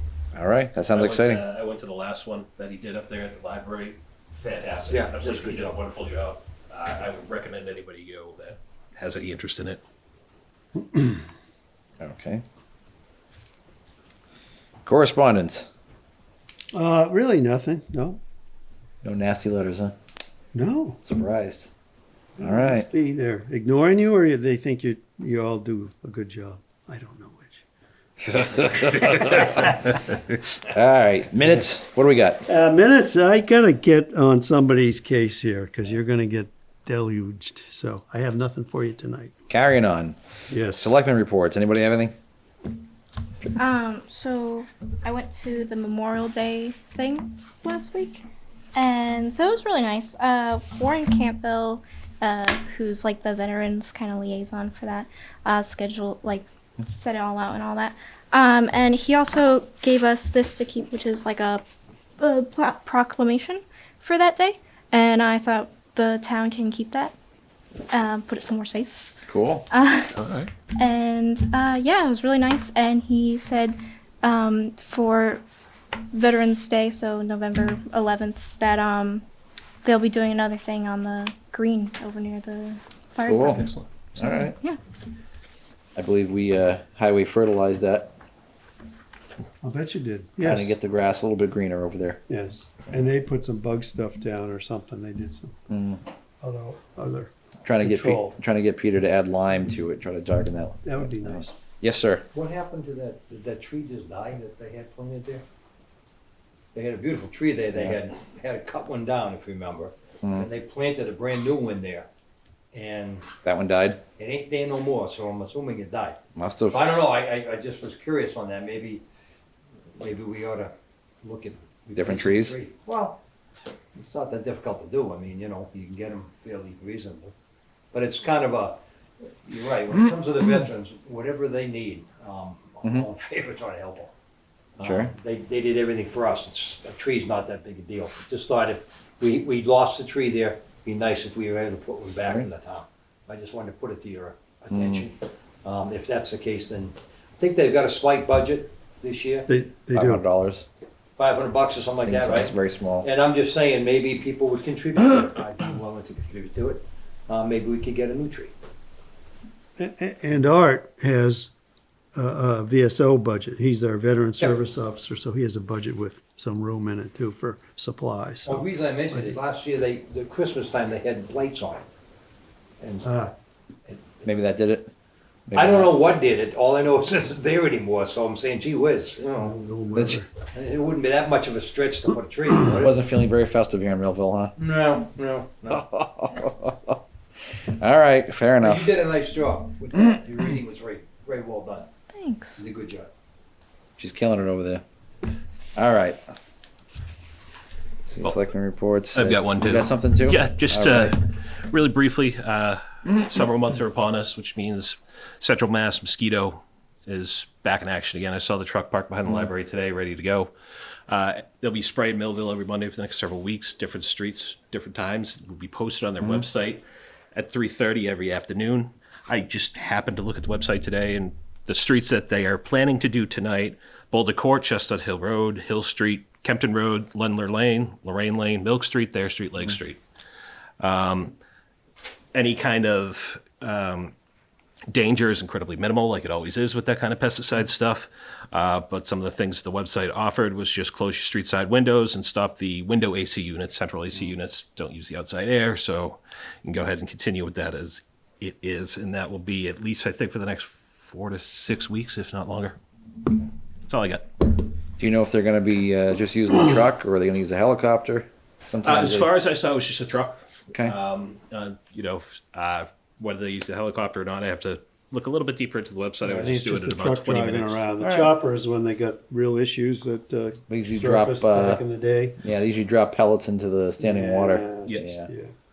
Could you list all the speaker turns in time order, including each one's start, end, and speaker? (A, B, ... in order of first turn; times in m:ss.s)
0:00.3-0:01.4 A
0:00.9-0:09.8 B
0:04.9-0:05.8 C
0:10.8-0:11.2 D
0:12.0-0:12.4 A
0:14.8-0:15.7 A
0:16.7-0:18.2 D
0:19.0-0:19.9 A
0:20.5-0:21.0 D
0:21.0-0:21.7 A
0:22.4-0:27.6 D
0:22.4-0:22.9 A
0:28.5-0:29.5 A
0:30.6-0:32.4 A
0:32.5-0:39.3 D
0:39.5-0:40.2 A
0:40.5-0:40.9 D
0:40.7-0:42.1 A
0:43.6-0:48.2 E
0:48.7-1:01.6 E
1:02.2-1:07.1 E
1:07.9-1:09.1 E
1:09.3-1:09.6 A
1:09.7-1:10.1 E
1:10.2-1:10.5 B
1:10.8-1:15.4 E
1:16.1-1:19.2 E
1:19.8-1:23.6 E
1:23.2-1:23.6 A
1:23.3-1:23.9 B
1:24.2-1:24.6 A
1:24.2-1:24.8 E
1:26.0-1:28.1 A
1:29.6-1:30.8 D
1:30.4-1:32.2 A
1:32.3-1:35.5 D
1:35.7-1:36.0 A
1:36.4-1:38.4 D
1:37.6-1:42.2 A
1:40.8-1:41.6 D
1:42.3-1:45.4 C
1:46.7-1:52.1 C
1:52.7-1:53.3 C
1:53.4-1:54.0 A
1:54.2-1:59.0 C
1:56.4-1:56.8 A
1:59.9-2:00.7 C
2:01.2-2:03.2 C
2:02.0-2:02.6 A
2:03.9-2:07.3 C
2:07.9-2:08.8 C
2:09.4-2:14.1 C
2:14.8-2:29.5 C
2:14.8-2:15.1 A
2:24.7-2:25.1 A
2:29.5-2:30.2 D
2:29.9-2:30.6 A
2:31.2-2:38.5 C
2:32.0-2:33.1 A
2:39.8-2:41.5 D
2:42.1-2:49.4 D
2:48.4-2:51.8 C
2:52.8-2:53.1 C
2:53.0-2:53.3 D
2:53.9-2:54.1 C
2:54.2-2:54.9 A
2:55.5-2:55.9 A
2:55.5-2:59.5 C
2:59.4-3:00.3 D
2:59.9-3:00.2 A
3:00.5-3:03.0 C
3:02.8-3:04.6 A
3:04.6-3:05.8 C
3:05.7-3:07.0 A
3:07.5-3:08.9 A
3:08.6-3:11.9 C
3:12.1-3:12.6 E
3:12.6-3:13.1 C
3:14.0-3:14.8 A
3:15.8-3:16.2 A
3:18.1-3:21.2 A
3:19.1-3:30.5 B
3:31.1-3:36.8 B
3:37.3-3:50.0 B
3:50.8-3:51.3 B
3:52.3-3:54.1 B
3:54.9-4:12.8 B
4:13.9-4:14.3 B
4:15.0-4:19.3 A
4:18.8-4:27.8 B
4:26.2-4:32.4 D
4:28.0-4:28.3 A
4:30.7-4:31.8 A
4:32.4-4:35.3 A
4:34.0-4:35.5 D